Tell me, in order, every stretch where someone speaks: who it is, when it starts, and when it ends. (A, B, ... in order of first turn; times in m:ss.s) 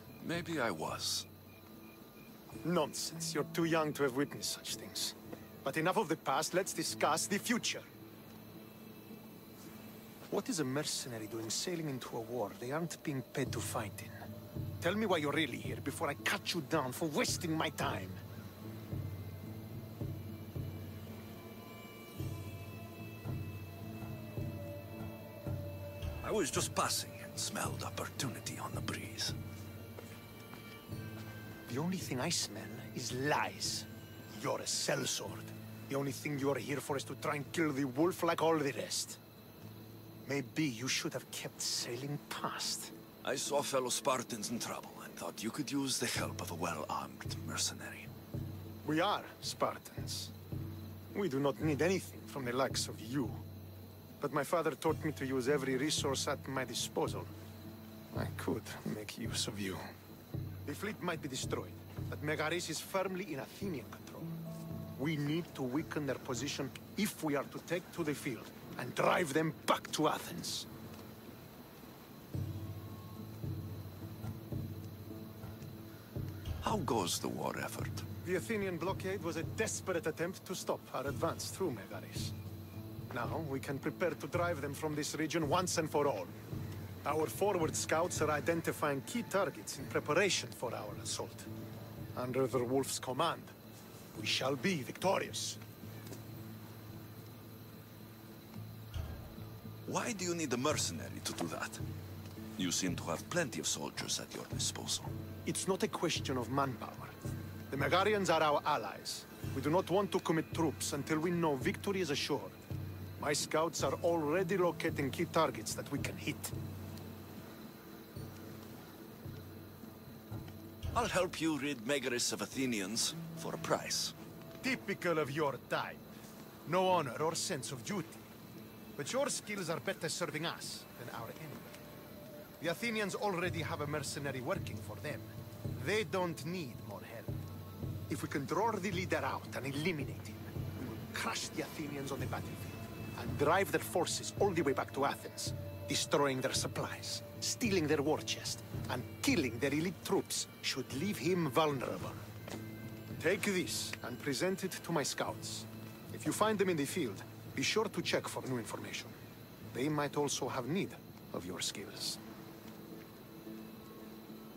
0:00.2-0:01.3 A
0:02.6-0:07.9 B
0:10.3-0:14.2 B
0:14.8-0:18.2 B
0:26.2-0:29.3 A
0:31.7-0:39.2 B
0:40.2-0:42.9 B
0:43.2-0:48.1 A
0:48.8-0:50.3 B
0:51.1-0:53.4 B
0:54.2-0:57.3 B
0:58.1-0:59.8 B
1:00.6-1:04.3 B
1:05.0-1:10.7 B
1:16.6-1:18.0 A
1:18.2-1:22.3 B
1:23.1-1:26.4 B
1:27.0-1:31.5 B
1:32.1-1:33.5 B
1:34.2-1:35.6 B
1:39.9-1:41.8 A
1:42.6-1:45.1 A
1:45.4-1:47.2 B
1:47.7-1:52.6 B
1:53.2-1:56.5 B
2:00.9-2:04.1 A
2:04.6-2:06.1 B
2:06.6-2:08.3 B
2:09.0-2:11.8 B
2:12.6-2:17.4 B
2:18.1-2:32.3 B
2:33.2-2:39.2 B
2:39.7-2:42.2 B